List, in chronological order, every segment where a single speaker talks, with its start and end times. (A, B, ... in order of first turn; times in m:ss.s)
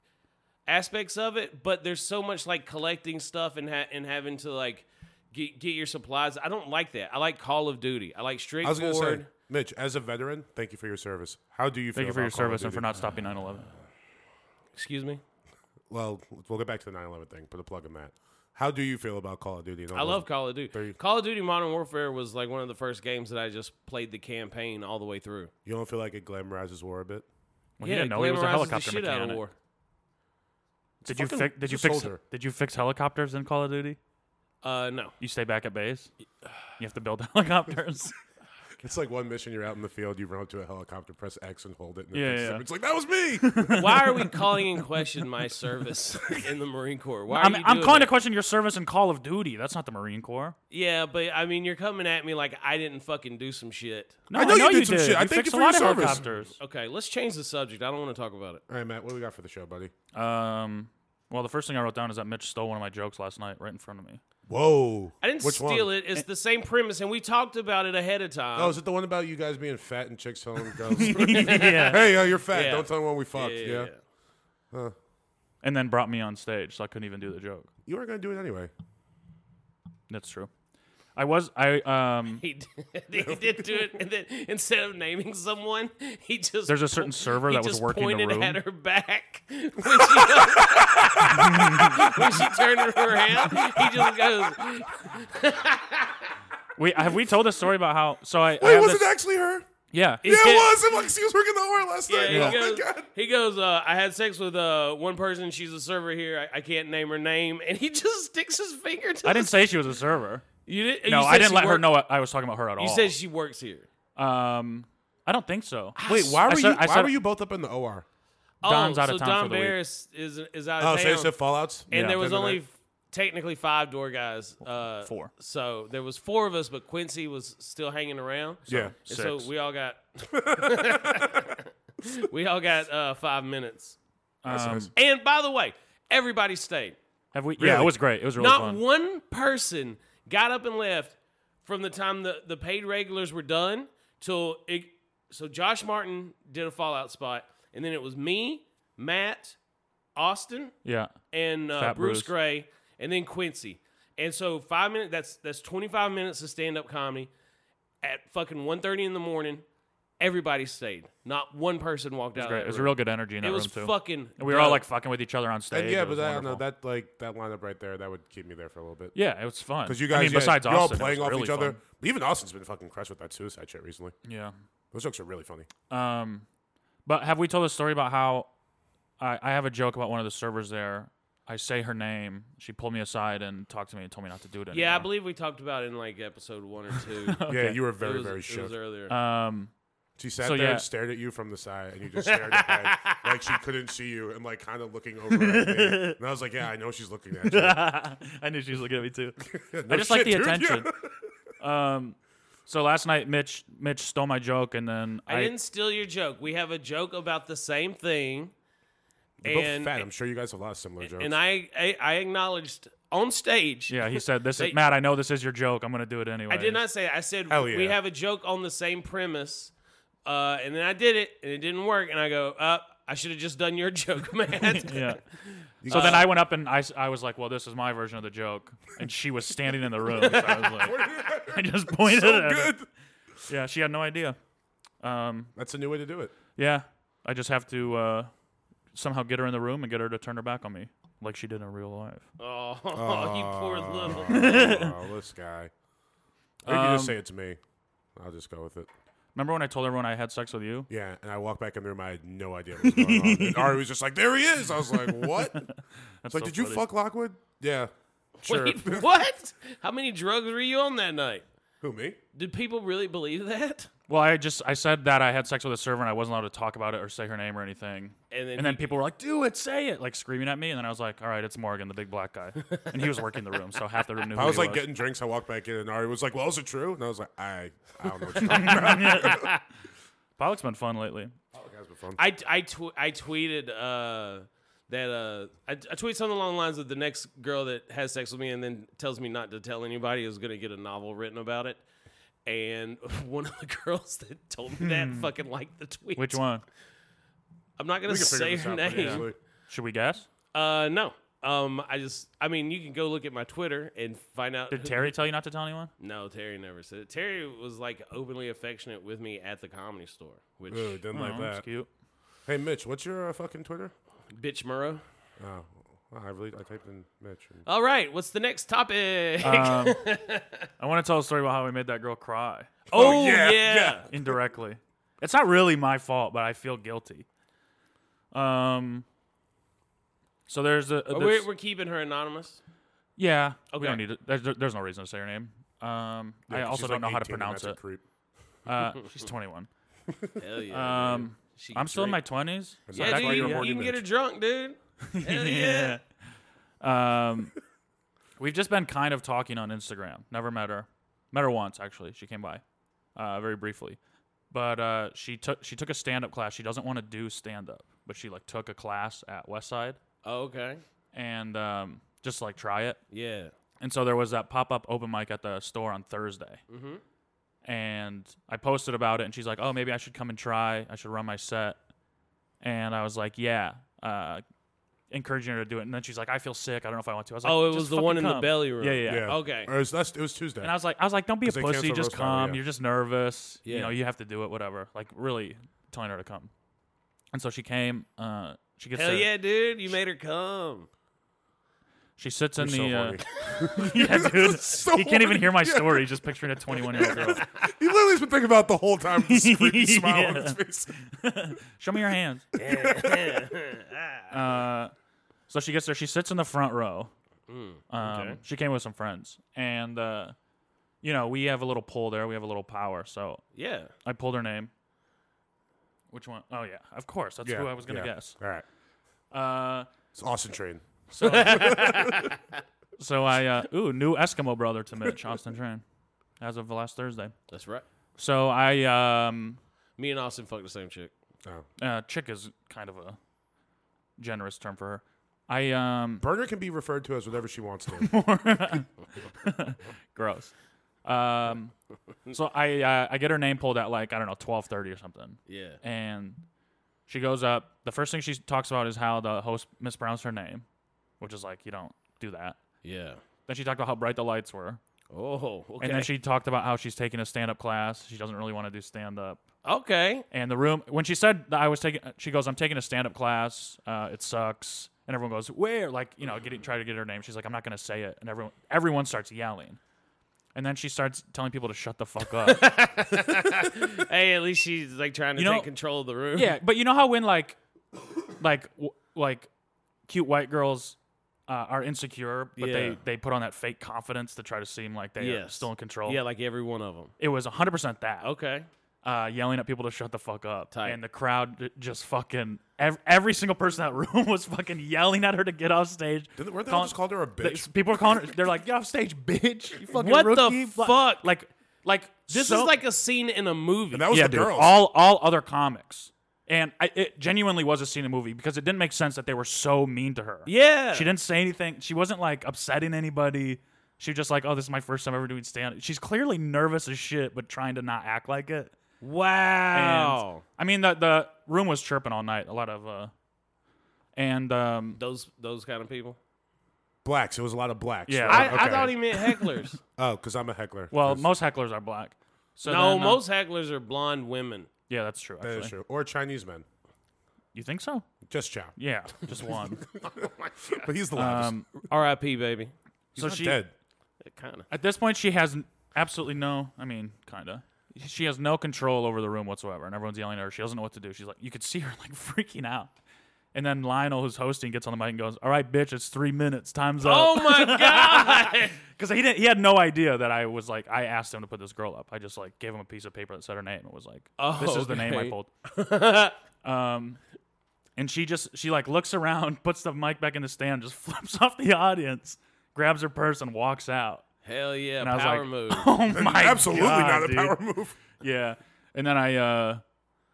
0:00.7-0:09.3 A
0:08.6-0:12.9 B
0:12.0-0:13.7 C
0:14.7-0:15.2 A
0:15.9-0:21.0 B
0:19.9-0:25.5 A
0:25.6-0:27.3 B
0:27.8-0:29.4 C
0:27.8-0:29.5 A
0:31.0-0:32.2 B
0:31.0-0:34.0 C
0:34.6-0:35.1 A
0:35.2-0:36.1 C
0:36.8-0:38.2 C
0:38.8-0:43.9 B
0:42.1-0:42.6 C
0:43.4-0:44.4 C
0:43.7-0:48.1 A
0:47.3-0:50.6 C
0:50.7-0:54.3 A
0:54.3-0:56.6 C
0:54.3-0:56.2 B
0:56.6-0:58.6 A
0:58.7-0:59.9 B
1:00.1-1:04.2 C
1:04.5-1:05.9 B
1:05.2-1:08.8 A
1:08.6-1:13.9 B
1:10.9-1:12.1 C
1:11.1-1:14.0 A
1:15.6-1:17.7 C
1:17.9-1:18.7 B
1:20.1-1:20.5 C
1:21.2-1:22.4 C
1:22.4-1:36.3 A
1:23.3-1:23.6 B
1:26.7-1:28.6 C
1:30.0-1:32.4 B
1:31.3-1:32.0 C
1:33.1-1:34.3 B
1:36.8-1:39.1 C
1:38.6-1:39.7 B
1:39.9-1:40.2 C
1:40.2-1:40.8 A
1:40.2-1:43.1 B
1:42.1-1:49.5 A
1:42.3-1:42.6 C
1:49.2-1:50.5 C
1:50.7-1:52.0 A
1:51.1-1:53.2 C
1:52.8-1:53.9 A
1:54.2-1:57.2 C
1:56.0-1:56.4 A
1:56.1-1:58.0 B
1:58.6-2:01.4 A
1:58.6-1:59.8 C
2:00.8-2:02.6 B
2:01.9-2:14.0 A
2:01.9-2:02.3 C
2:05.0-2:05.3 C
2:08.7-2:09.0 B
2:08.7-2:09.5 C
2:10.4-2:11.5 B
2:14.4-2:14.9 C
2:14.5-2:14.9 B
2:15.0-2:17.0 A
2:17.3-2:18.8 C
2:17.6-2:18.0 B
2:18.4-2:29.6 A
2:30.2-2:30.8 A
2:30.8-2:31.2 C
2:31.3-2:37.3 A
2:31.7-2:32.3 C
2:38.0-2:39.6 A
2:40.2-2:44.8 A
2:42.4-2:46.6 C
2:45.7-2:49.1 B
2:49.2-2:51.8 C
2:49.8-2:54.1 B
2:54.2-2:54.5 C
2:54.9-2:55.7 B
2:55.9-2:56.4 C
2:57.1-2:58.5 C
2:59.2-3:05.1 C
3:04.7-3:07.4 A
3:07.3-3:07.8 C
3:07.5-3:08.7 B
3:08.0-3:09.1 A
3:09.1-3:09.7 C
3:10.2-3:17.8 B
3:10.4-3:10.9 C
3:12.2-3:13.3 A
3:15.3-3:16.2 C
3:17.4-3:20.9 C
3:19.5-3:21.1 B
3:21.6-3:25.5 C
3:25.3-3:28.5 A
3:29.4-3:31.4 B
3:29.4-3:30.0 A
3:31.0-3:34.8 A
3:33.9-3:36.8 C
3:36.5-3:39.7 A
3:37.5-3:38.0 B
3:40.2-3:46.3 A
3:44.6-3:45.2 C
3:45.8-3:46.3 B
3:45.8-3:52.8 C
3:50.2-3:50.9 A
3:50.3-3:52.9 B
3:53.5-3:54.4 C
3:55.0-3:55.5 C
3:55.6-3:56.3 B
3:56.6-3:58.3 C
3:58.9-4:02.2 C
4:02.4-4:04.5 A
4:02.9-4:05.7 B
4:04.3-4:05.0 C
4:06.6-4:07.6 B
4:06.7-4:07.2 C
4:08.2-4:08.9 B
4:09.4-4:10.9 C
4:10.9-4:15.6 B
4:12.8-4:13.8 C
4:15.1-4:15.7 C
4:16.2-4:16.9 C
4:16.3-4:17.9 B
4:18.4-4:19.1 B
4:18.4-4:21.4 A
4:21.8-4:22.2 B
4:22.3-4:23.9 A
4:24.1-4:34.9 C
4:28.3-4:28.9 A
4:34.3-4:39.5 B
4:38.4-4:39.6 A
4:38.4-4:39.6 C
4:40.4-4:41.3 C
4:41.5-4:42.2 B
4:42.2-4:51.8 A
4:52.4-4:56.4 A
4:54.8-4:55.3 C
4:56.2-4:56.6 C
4:57.8-4:59.3 A
4:58.0-4:59.4 B
4:59.0-5:00.3 C
5:00.5-5:05.1 A
5:04.7-5:05.9 C
5:06.0-5:11.0 A
5:10.7-5:11.6 B
5:11.1-5:11.9 C
5:12.5-5:13.9 B
5:14.3-5:15.0 A
5:15.4-5:17.6 B
5:17.6-5:20.7 A
5:19.4-5:20.0 C
5:20.8-5:22.8 C
5:22.9-5:24.4 B
5:22.9-5:24.1 A
5:24.1-5:27.2 C
5:28.3-5:29.0 C
5:30.5-5:31.5 C
5:31.1-5:32.6 A
5:33.2-5:37.8 C
5:33.7-5:34.0 A
5:36.5-5:38.0 B
5:38.7-5:39.7 C
5:40.4-5:42.2 A
5:40.7-5:43.7 C
5:42.9-5:44.0 B
5:42.9-5:46.0 A
5:45.1-5:46.0 C
5:46.8-5:47.6 C
5:48.4-5:52.6 C
5:53.2-5:54.0 C
5:54.5-6:00.0 C
6:00.2-6:00.8 A
6:01.1-6:03.0 C
6:03.1-6:03.5 A
6:03.8-6:06.6 C
6:06.7-6:07.0 A
6:07.6-6:11.8 C
6:12.6-6:14.4 C
6:15.1-6:19.3 C
6:17.4-6:19.7 A
6:19.1-6:20.7 B
6:20.6-6:26.5 C
6:21.4-6:22.6 B
6:23.6-6:23.9 A
6:27.3-6:29.3 C
6:28.9-6:30.9 A
6:32.2-6:37.5 C
6:32.6-6:40.9 B
6:39.2-6:42.5 C
6:42.6-6:44.3 A
6:42.6-6:43.4 B
6:44.3-6:44.9 C
6:45.5-6:47.1 C
6:47.5-6:48.4 A
6:47.9-6:50.4 C
6:51.0-6:53.4 C
6:53.6-6:53.9 A
6:54.0-6:54.7 C
6:56.1-6:58.4 C
6:57.4-6:58.6 B
6:59.3-6:59.9 C
7:00.2-7:02.3 B
7:01.1-7:02.0 C
7:01.2-7:02.4 A
7:03.0-7:05.8 C
7:06.4-7:07.4 C
7:07.5-7:07.8 A
7:08.2-7:09.6 C
7:10.0-7:11.1 A
7:11.8-7:13.2 C
7:14.2-7:16.2 C
7:16.2-7:18.1 B
7:18.0-7:20.5 C
7:21.0-7:21.7 C
7:22.3-7:26.4 C
7:25.5-7:25.8 A
7:27.1-7:30.6 C
7:31.2-7:32.6 C
7:32.8-7:33.2 A
7:33.5-7:34.8 C
7:35.1-7:36.1 A
7:35.8-7:39.4 C
7:39.6-7:40.2 A
7:40.3-7:49.8 C
7:50.5-7:52.7 C
7:52.4-7:56.5 A
7:55.4-7:55.7 C
7:56.4-7:57.6 C
7:58.4-7:59.5 C
8:00.1-8:06.2 C
8:02.6-8:03.0 A
8:05.2-8:07.1 A
8:07.2-8:08.3 C
8:08.2-8:08.7 A
8:09.0-8:22.7 C
8:10.7-8:11.0 A
8:16.4-8:17.7 B
8:19.9-8:21.2 A
8:22.3-8:24.1 A
8:23.9-8:24.8 B
8:24.1-8:38.7 C
8:30.5-8:31.1 A
8:39.0-8:40.4 A
8:39.7-8:43.1 C
8:44.2-8:45.0 C
8:45.0-8:46.2 A
8:47.0-8:49.0 B
8:48.1-8:49.6 C
8:48.3-8:49.8 A
8:50.0-8:51.3 B
8:50.9-8:53.2 C
8:52.7-8:54.7 A
8:54.9-8:55.7 C
8:55.4-8:56.6 B
8:57.5-8:58.1 C
8:58.3-8:58.8 B
8:58.8-8:59.8 C
9:00.0-9:01.5 B
9:01.1-9:01.7 C
9:01.9-9:02.7 A
9:03.2-9:03.7 B
9:03.2-9:03.6 C
9:04.2-9:04.7 A
9:04.7-9:12.9 C
9:13.5-9:25.5 C
9:17.0-9:18.8 A
9:24.4-9:26.4 A
9:26.6-9:27.2 C
9:28.0-9:34.3 C
9:34.4-9:35.9 A
9:35.0-9:37.6 C
9:36.1-9:38.0 B
9:38.2-9:39.8 C